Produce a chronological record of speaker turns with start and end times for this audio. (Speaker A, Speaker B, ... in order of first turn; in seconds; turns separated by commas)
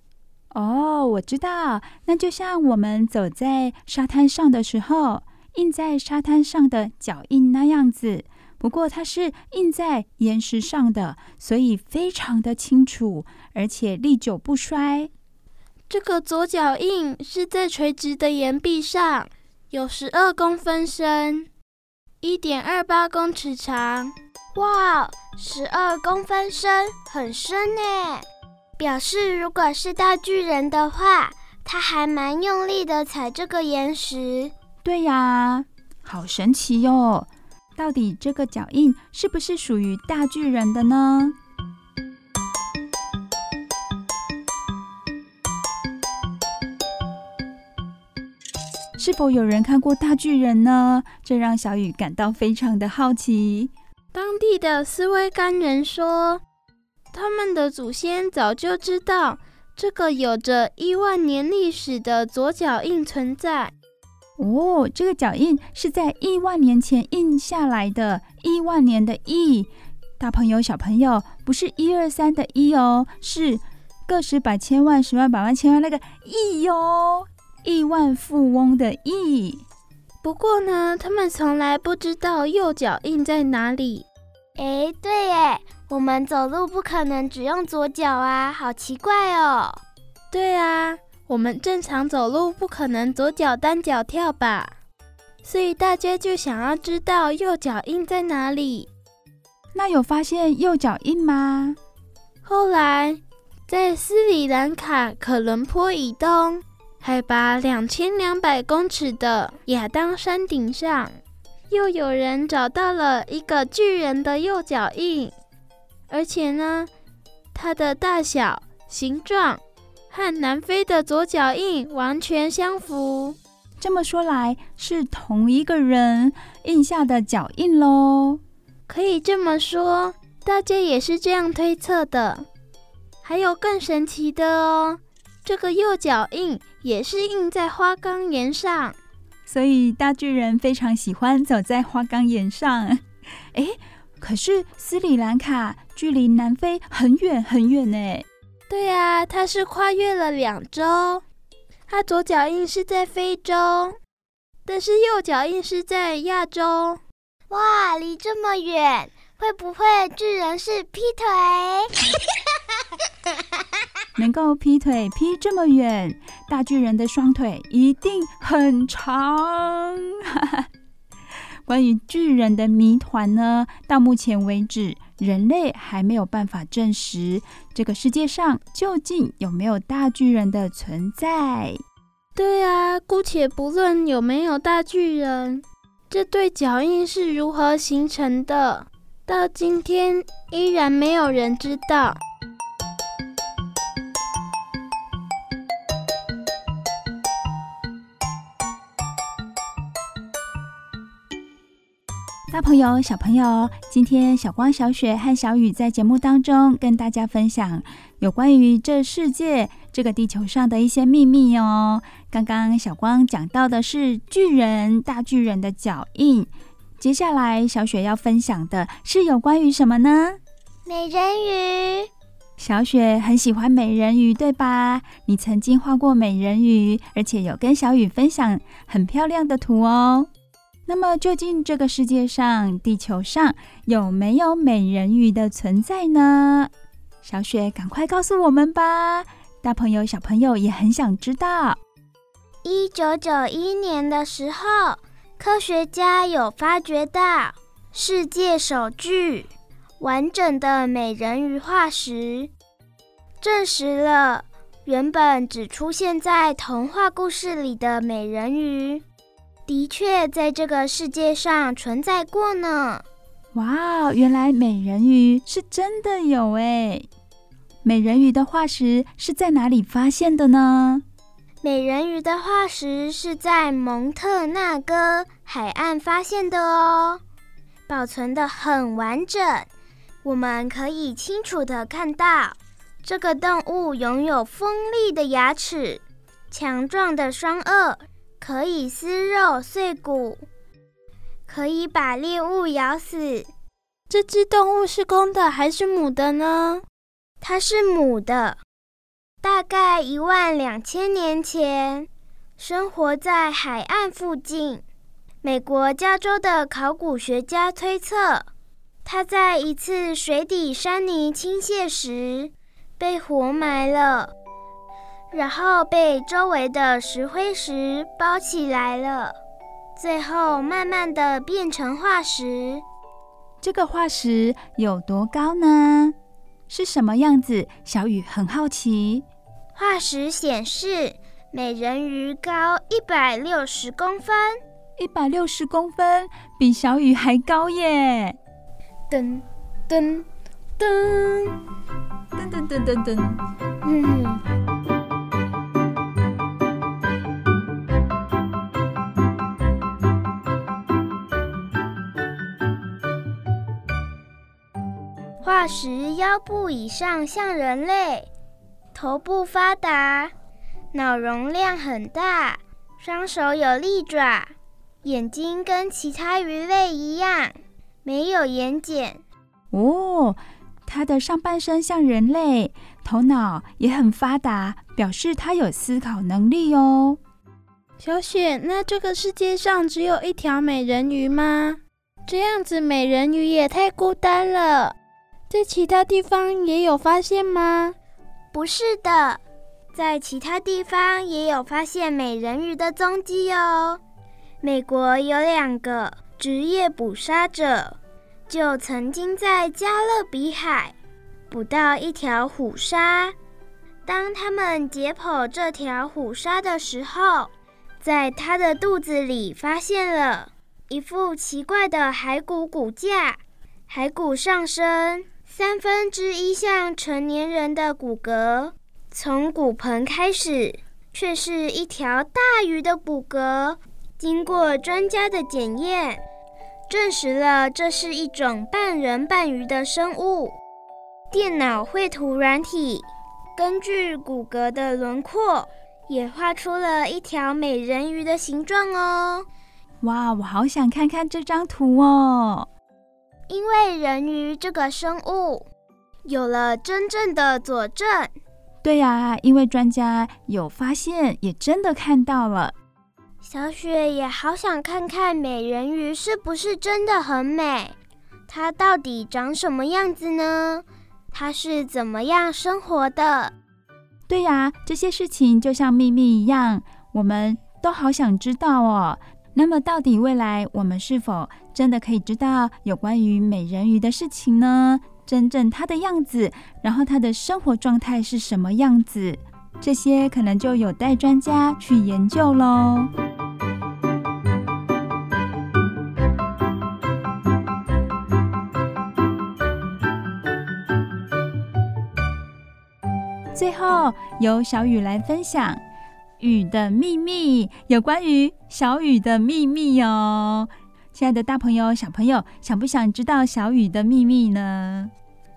Speaker A: 0.5-15.1, Speaker B: 15.9-21.5, Speaker B: 22.2-24.1, Speaker C: 24.6-28.2, Speaker C: 28.8-34.5, Speaker A: 34.8-41.4, Speaker A: 49.0-53.7, Speaker B: 54.1-56.4, Speaker B: 57.1-63.7, Speaker A: 64.4-69.7, Speaker A: 70.2-79.6, Speaker B: 80.2-84.1, Speaker C: 84.6-89.8, Speaker B: 90.3-94.7, Speaker B: 95.4-98.9, Speaker A: 99.7-101.8, Speaker B: 102.4-111.2, Speaker B: 111.7-115.3, Speaker B: 116.1-116.9, Speaker B: 117.5-123.4, Speaker A: 123.8-128.4, Speaker B: 128.9-132.5, Speaker B: 133.2-139.0, Speaker A: 139.5-148.3, Speaker B: 148.7-151.2, Speaker B: 151.9-154.0, Speaker B: 154.7-157.0, Speaker C: 157.5-161.9, Speaker A: 164.2-170.7, Speaker A: 171.7-181.8, Speaker B: 182.4-192.2, Speaker A: 202.5-220.4, Speaker C: 220.9-222.1, Speaker A: 222.6-230.3, Speaker A: 230.9-236.7, Speaker A: 237.2-241.8, Speaker C: 242.6-252.5, Speaker C: 253.4-259.0, Speaker C: 259.7-263.0, Speaker A: 263.5-267.1, Speaker A: 267.8-271.0, Speaker C: 271.6-277.2, Speaker C: 277.9-279.7, Speaker C: 280.2-290.4, Speaker C: 291.5-293.5, Speaker B: 294.1-296.8, Speaker C: 297.4-298.6, Speaker C: 299.4-304.8, Speaker C: 305.4-308.5, Speaker C: 309.1-314.3, Speaker C: 315.3-319.4, Speaker C: 320.0-322.8, Speaker A: 323.6-326.1, Speaker A: 326.7-329.3, Speaker C: 329.7-334.6, Speaker A: 335.0-338.4, Speaker C: 339.1-340.3, Speaker C: 340.8-341.6, Speaker A: 342.3-343.4, Speaker C: 343.8-344.4, Speaker C: 355.4-358.3, Speaker C: 358.9-360.3, Speaker C: 360.9-364.5, Speaker C: 365.0-369.2, Speaker A: 369.7-377.2, Speaker B: 378.0-384.9, Speaker B: 385.5-388.0, Speaker C: 388.5-389.4, Speaker C: 389.9-394.0, Speaker C: 394.6-398.0, Speaker C: 398.5-400.9, Speaker C: 401.5-403.4, Speaker C: 404.1-426.2, Speaker C: 426.9-430.6, Speaker C: 431.3-439.5, Speaker A: 440.0-442.7, Speaker C: 443.5-445.7, Speaker C: 446.3-448.4, Speaker A: 448.8-452.8, Speaker C: 453.4-457.9, Speaker C: 458.5-463.5, Speaker A: 464.3-483.1, Speaker A: 493.5-495.8, Speaker A: 496.4-505.1